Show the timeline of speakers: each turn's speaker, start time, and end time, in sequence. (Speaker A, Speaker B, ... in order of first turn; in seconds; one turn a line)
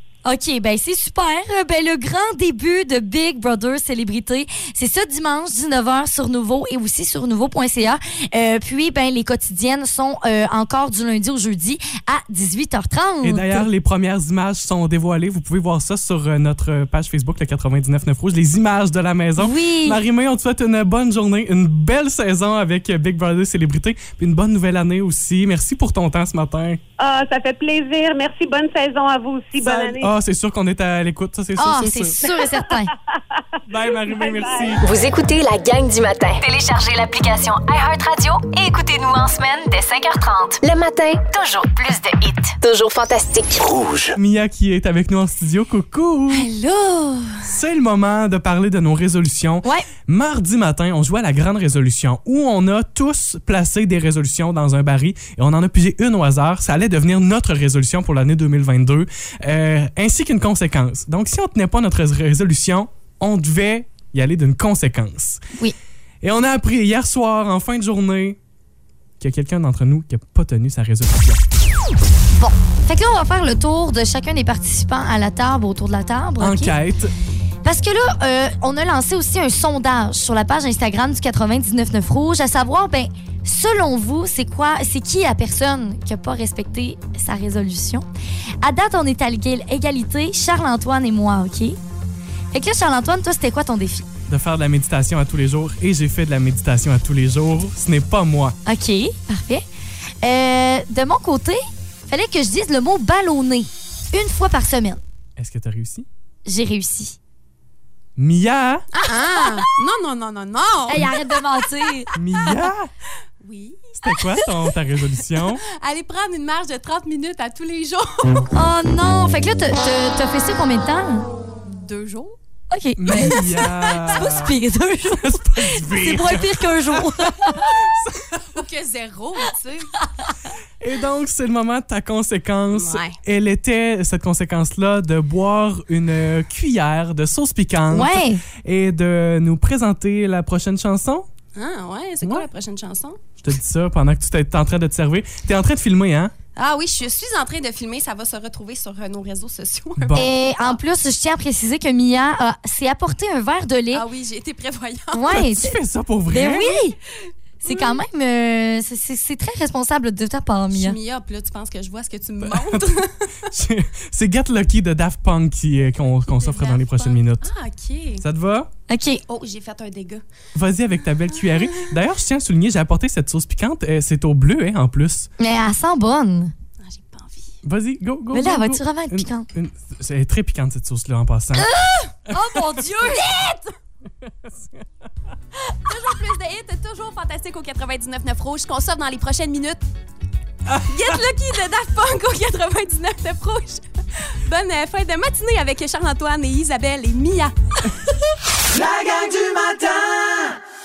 Speaker A: 0.3-13.7
Speaker B: 13.2-26.8
Speaker A: 19.4-20.0
Speaker C: 27.0-30.1
Speaker B: 29.6-32.2
Speaker A: 31.6-32.9
Speaker C: 32.3-32.6
Speaker B: 33.7-35.0
Speaker C: 34.0-34.8
Speaker D: 34.8-43.7
Speaker E: 43.7-44.1
Speaker B: 44.1-46.5
Speaker A: 46.4-47.4
Speaker B: 47.4-65.4
Speaker B: 66.2-68.4
Speaker B: 69.2-71.4
Speaker A: 72.4-76.8
Speaker B: 76.4-77.1
Speaker A: 77.6-88.1
Speaker A: 88.6-91.8
Speaker A: 92.5-94.1
Speaker B: 94.3-98.6
Speaker A: 98.7-99.6
Speaker A: 100.2-105.0
Speaker B: 105.4-106.1
Speaker A: 106.5-107.2
Speaker B: 108.2-108.9
Speaker F: 108.9-111.9
Speaker A: 109.0-109.7
Speaker A: 110.9-112.1
Speaker B: 112.2-112.9
Speaker F: 113.4-114.7
Speaker B: 114.0-115.6
Speaker F: 115.4-118.5
Speaker A: 118.5-121.3
Speaker F: 121.7-122.4
Speaker A: 122.7-127.7
Speaker B: 123.0-124.6
Speaker F: 123.9-124.1
Speaker B: 125.1-128.6
Speaker F: 128.5-130.0
Speaker B: 130.8-141.3
Speaker F: 132.7-133.2
Speaker A: 137.9-138.4
Speaker F: 141.5-143.2
Speaker B: 142.2-142.5
Speaker B: 143.4-146.3
Speaker F: 146.6-150.8
Speaker B: 150.0-150.3
Speaker A: 150.2-154.1
Speaker F: 153.9-155.4
Speaker A: 155.1-155.8
Speaker B: 155.3-156.8
Speaker A: 156.3-157.0
Speaker A: 157.6-161.0
Speaker F: 157.7-158.0
Speaker F: 160.7-163.2
Speaker B: 162.4-167.5
Speaker F: 166.3-168.2
Speaker B: 168.2-168.7
Speaker A: 168.9-169.2
Speaker F: 169.3-170.2
Speaker B: 170.6-175.3
Speaker F: 171.3-171.9
Speaker A: 175.4-176.5
Speaker F: 176.8-177.6
Speaker B: 177.6-181.7
Speaker A: 178.3-179.5
Speaker A: 181.6-183.6
Speaker B: 182.3-182.8
Speaker F: 182.8-183.6
Speaker B: 184.2-184.9
Speaker F: 185.9-189.8
Speaker B: 190.7-191.2
Speaker F: 190.8-193.8
Speaker F: 194.4-197.6
Speaker E: 198.7-200.6